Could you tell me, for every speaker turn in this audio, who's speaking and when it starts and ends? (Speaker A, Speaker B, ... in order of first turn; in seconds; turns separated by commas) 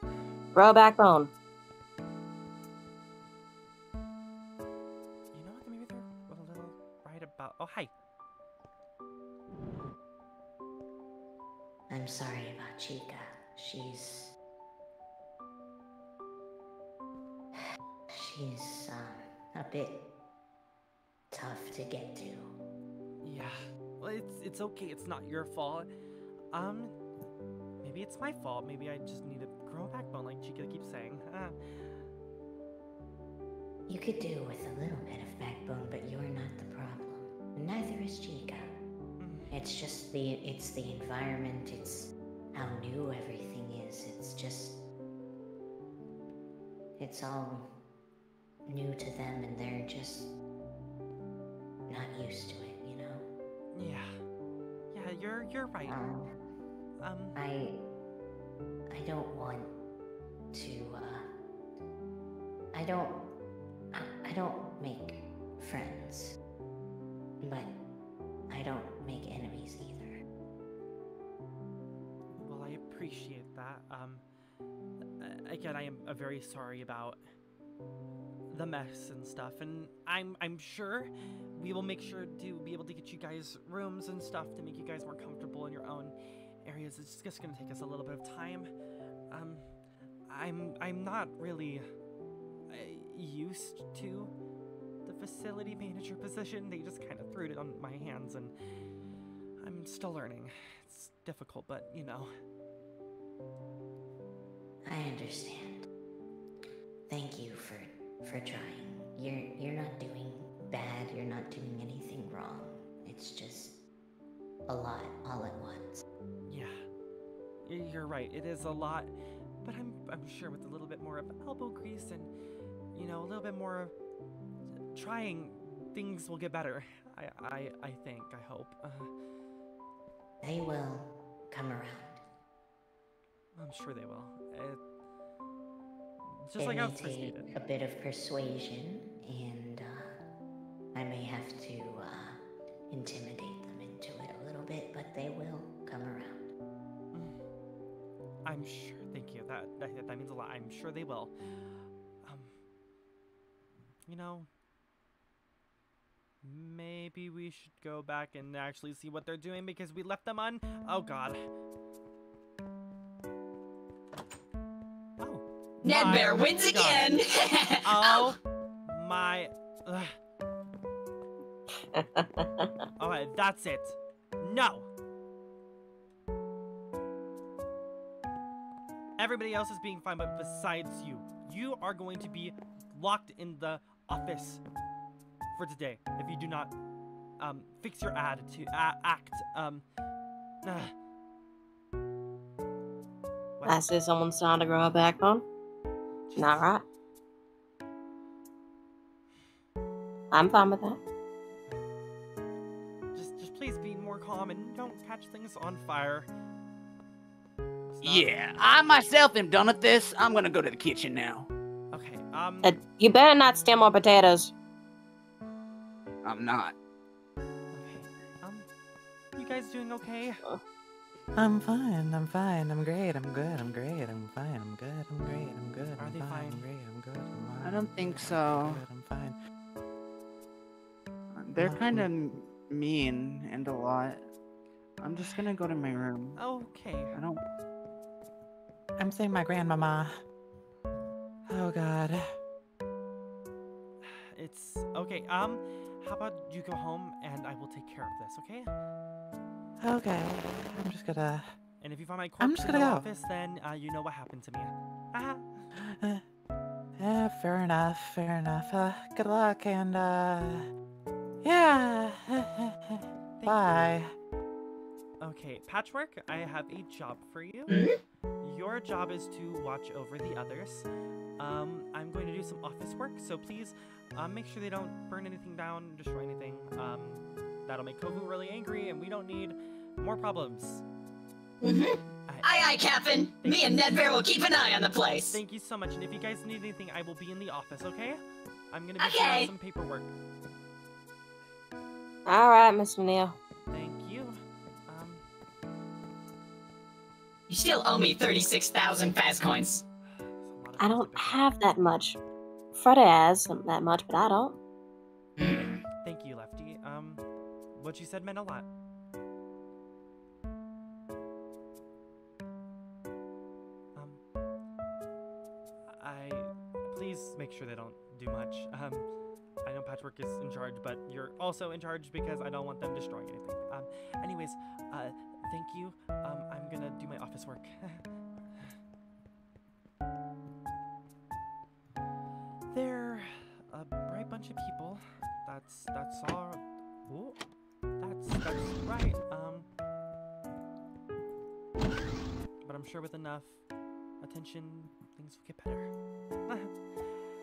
Speaker A: 0.5-1.3, Speaker B: 5.3-7.9, Speaker C: 11.9-14.3, Speaker C: 18.1-20.0, Speaker C: 21.3-22.5, Speaker B: 23.2-25.9, Speaker B: 26.5-27.0, Speaker B: 27.8-32.0, Speaker C: 33.9-38.7, Speaker B: 39.2-39.5, Speaker C: 39.5-44.8, Speaker C: 47.0-47.7, Speaker C: 48.7-50.4, Speaker C: 51.9-53.3, Speaker B: 53.7-54.2, Speaker B: 54.9-56.0, Speaker C: 55.9-56.3, Speaker B: 57.0-57.4, Speaker C: 57.4-57.8, Speaker C: 58.9-59.7, Speaker C: 60.5-61.3, Speaker C: 62.7-63.2, Speaker C: 63.9-66.4, Speaker C: 67.4-67.8, Speaker C: 68.5-70.2, Speaker B: 72.4-74.2, Speaker B: 75.2-77.2, Speaker B: 78.5-88.7, Speaker B: 89.3-89.7, Speaker B: 90.3-91.8, Speaker B: 92.7-94.3, Speaker B: 95.0-98.5, Speaker B: 99.6-102.3, Speaker C: 104.9-105.9, Speaker C: 107.1-113.8, Speaker C: 114.7-116.0, Speaker B: 116.5-116.8, Speaker B: 117.6-119.1, Speaker B: 119.6-122.3, Speaker B: 122.9-123.9, Speaker B: 124.9-129.1, Speaker C: 130.4-132.2, Speaker B: 133.6-134.8, Speaker B: 136.5-137.5, Speaker C: 136.6-140.2, Speaker C: 140.9-146.5, Speaker B: 147.1-147.4, Speaker B: 148.4-152.5, Speaker B: 154.1-154.5, Speaker B: 156.4-161.4, Speaker B: 165.2-167.1, Speaker D: 165.8-168.3, Speaker B: 167.8-170.1, Speaker A: 171.9-172.7, Speaker B: 173.0-174.9, Speaker B: 179.2-184.6, Speaker B: 185.5-186.7, Speaker B: 187.4-189.8, Speaker B: 190.6-190.9, Speaker B: 193.6-193.9, Speaker A: 193.7-195.4, Speaker B: 196.3-196.7, Speaker A: 196.4-196.8, Speaker A: 200.3-201.0, Speaker B: 203.1-206.3, Speaker B: 207.9-208.4, Speaker E: 208.0-211.5, Speaker B: 211.9-212.8, Speaker A: 212.6-214.5, Speaker E: 216.2-216.8, Speaker B: 217.7-218.7, Speaker B: 219.4-220.4, Speaker F: 221.4-229.4, Speaker B: 226.0-226.7, Speaker G: 227.6-228.8, Speaker G: 231.3-234.2, Speaker F: 231.6-232.1, Speaker G: 235.0-236.4, Speaker B: 236.4-237.2, Speaker G: 237.1-237.4, Speaker F: 239.0-240.2, Speaker F: 241.5-242.2, Speaker B: 244.0-248.7, Speaker F: 249.8-251.5, Speaker B: 251.8-255.6, Speaker F: 252.4-253.1, Speaker F: 255.8-256.2, Speaker F: 257.0-260.7, Speaker F: 261.4-264.1, Speaker B: 263.4-264.0, Speaker B: 265.2-267.8, Speaker D: 267.7-268.0, Speaker B: 268.4-270.9, Speaker B: 271.4-280.9, Speaker D: 281.6-285.4, Speaker B: 282.3-282.8, Speaker B: 283.4-283.8, Speaker B: 285.3-290.1, Speaker D: 289.0-289.5, Speaker A: 292.3-293.4, Speaker B: 293.7-295.2, Speaker D: 297.5-299.8, Speaker B: 300.1-301.5, Speaker A: 300.8-302.2, Speaker A: 302.7-304.6, Speaker D: 305.4-305.8, Speaker B: 306.0-307.2, Speaker B: 307.8-308.7, Speaker B: 313.9-314.2, Speaker B: 315.9-319.1, Speaker B: 319.6-328.1, Speaker B: 332.7-337.5, Speaker B: 338.0-339.7, Speaker B: 342.6-343.6, Speaker B: 344.2-345.9, Speaker B: 346.5-346.8